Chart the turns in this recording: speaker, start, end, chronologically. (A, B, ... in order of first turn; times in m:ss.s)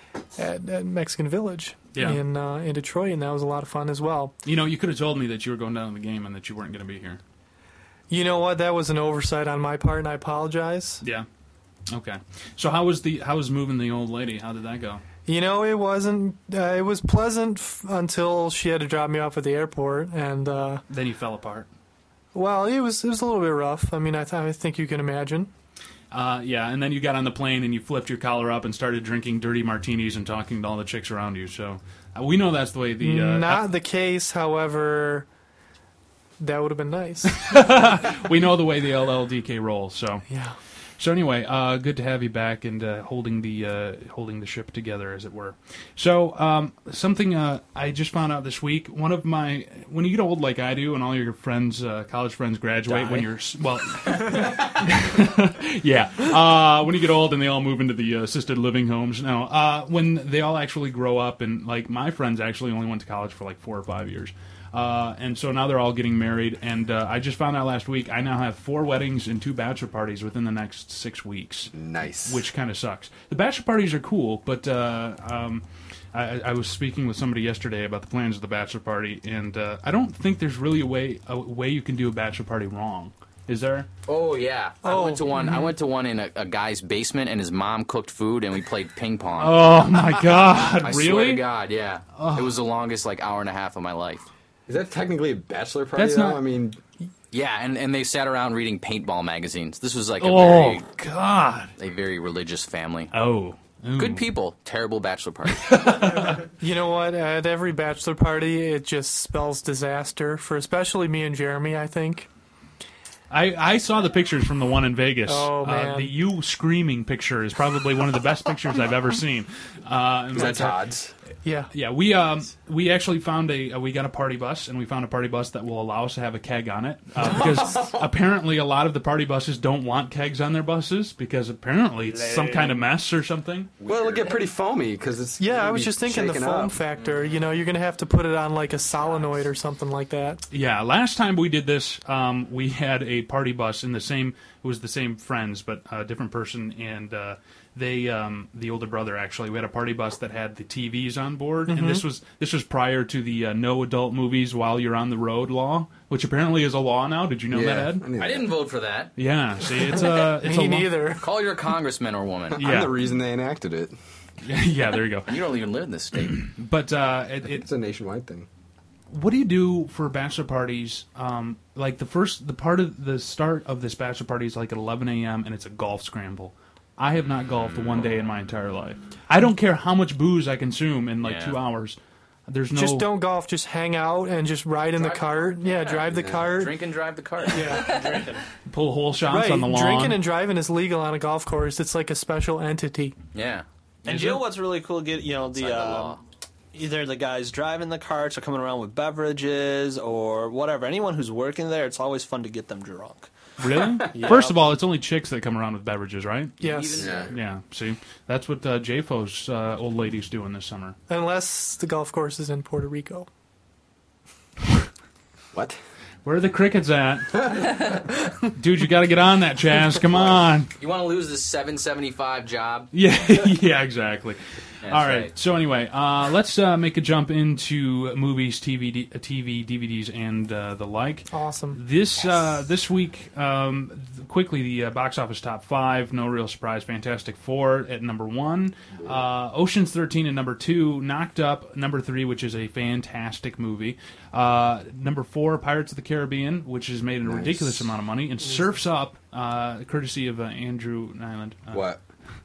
0:00.4-0:04.4 A
0:01.9-0:02.2 B
0:04.4-0:07.2 B
0:08.1-0:11.0 A
0:11.9-0:15.0 B
0:15.3-0:20.8 A
0:20.9-0:21.7 B
0:22.3-0:25.5 A
0:26.1-0:33.7 B
0:33.0-0:35.3 A
0:36.4-0:37.5 A
0:37.3-0:40.3 B
0:40.3-0:40.6 A
0:41.0-1:11.7 B
0:52.9-0:53.2 C
1:11.7-1:12.4 D
1:12.2-1:23.9 B
1:24.1-1:34.2 C
1:24.8-1:25.6 A
1:29.4-1:31.4 B
1:32.2-1:32.5 B
1:34.7-1:36.8 D
1:36.0-1:36.4 B
1:37.3-1:40.9 C
1:40.2-1:41.7 B
1:41.8-1:43.1 C
1:43.1-1:44.3 B
1:44.0-1:46.0 C
1:45.6-1:46.4 B
1:46.6-1:52.3 A
1:53.3-2:00.8 B
1:55.3-1:56.1 A
2:00.3-2:01.1 D
2:01.4-2:01.7 A
2:01.7-2:13.7 B
2:07.2-2:08.0 D
2:13.8-2:14.2 C
2:13.8-2:16.8 D
2:15.4-2:20.4 A
2:20.5-2:38.0 B
2:31.7-2:32.0 A
2:37.5-2:38.5 D
2:38.2-2:39.1 C
2:39.2-2:41.1 B
2:40.0-2:41.3 A
2:41.2-2:42.6 C
2:42.5-2:44.0 D
2:42.6-2:43.0 B
2:44.4-2:45.4 B
2:45.3-2:46.5 C
2:46.4-2:47.7 B
2:47.4-2:48.5 D
2:49.1-3:02.0 B
2:57.7-2:58.1 C
3:01.2-3:01.6 C
3:02.5-3:03.1 B
3:02.7-3:06.8 A
3:05.0-3:07.9 C
3:07.5-3:08.3 A
3:07.9-3:08.4 E
3:08.7-3:10.2 B
3:09.2-3:13.2 A
3:13.3-3:13.6 C
3:14.0-3:16.2 E
3:15.5-3:16.2 C
3:16.7-3:23.3 E
3:23.6-3:26.6 B
3:24.2-3:24.5 E
3:26.6-3:27.1 A
3:26.6-3:27.3 C
3:27.0-3:27.3 D
3:27.3-3:31.0 B
3:31.1-3:33.3 A
3:36.2-3:37.8 B
3:38.5-3:40.7 B
3:40.8-3:42.9 C
3:42.9-4:11.9 B
3:44.8-3:45.3 C
3:51.3-3:51.8 A
4:07.2-4:07.9 D
4:11.7-4:12.0 D